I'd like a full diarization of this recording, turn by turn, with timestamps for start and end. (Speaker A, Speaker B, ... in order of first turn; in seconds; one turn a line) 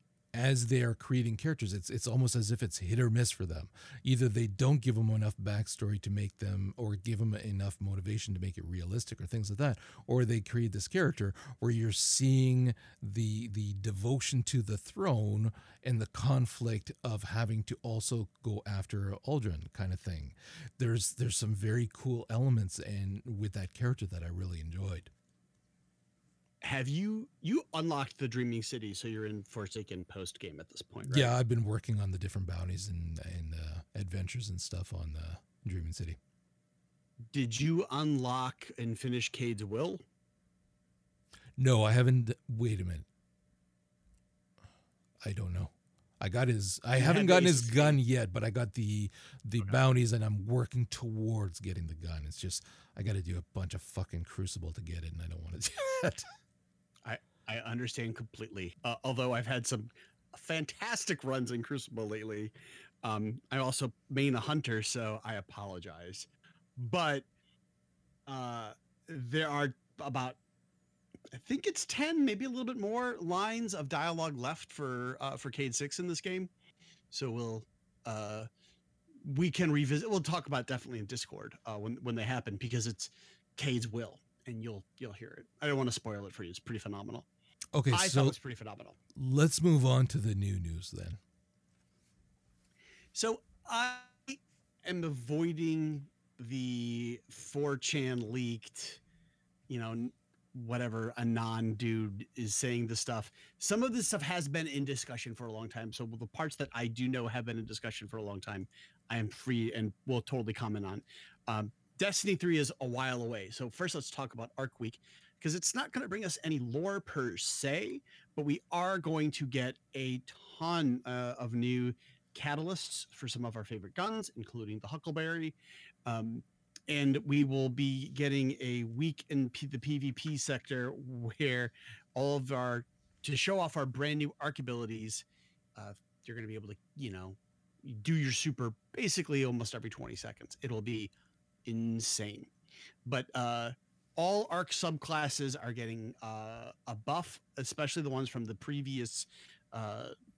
Speaker A: 0.3-25.1
Speaker B: 26.6-31.3
Speaker A: 31.0-36.2
Speaker B: 37.3-40.0
Speaker A: 41.6-43.0
Speaker A: 45.2-56.3
Speaker B: 46.9-48.0
Speaker B: 57.0-67.2
Speaker B: 68.3-70.4
Speaker B: 71.3-76.5
Speaker B: 77.1-78.5
Speaker B: 79.2-87.3
Speaker A: 87.7-88.3
Speaker B: 87.9-89.0
Speaker A: 89.1-91.2
Speaker B: 93.1-99.0
Speaker B: 99.7-135.2
Speaker B: 135.8-141.1
Speaker B: 141.7-142.5
Speaker B: 143.1-150.1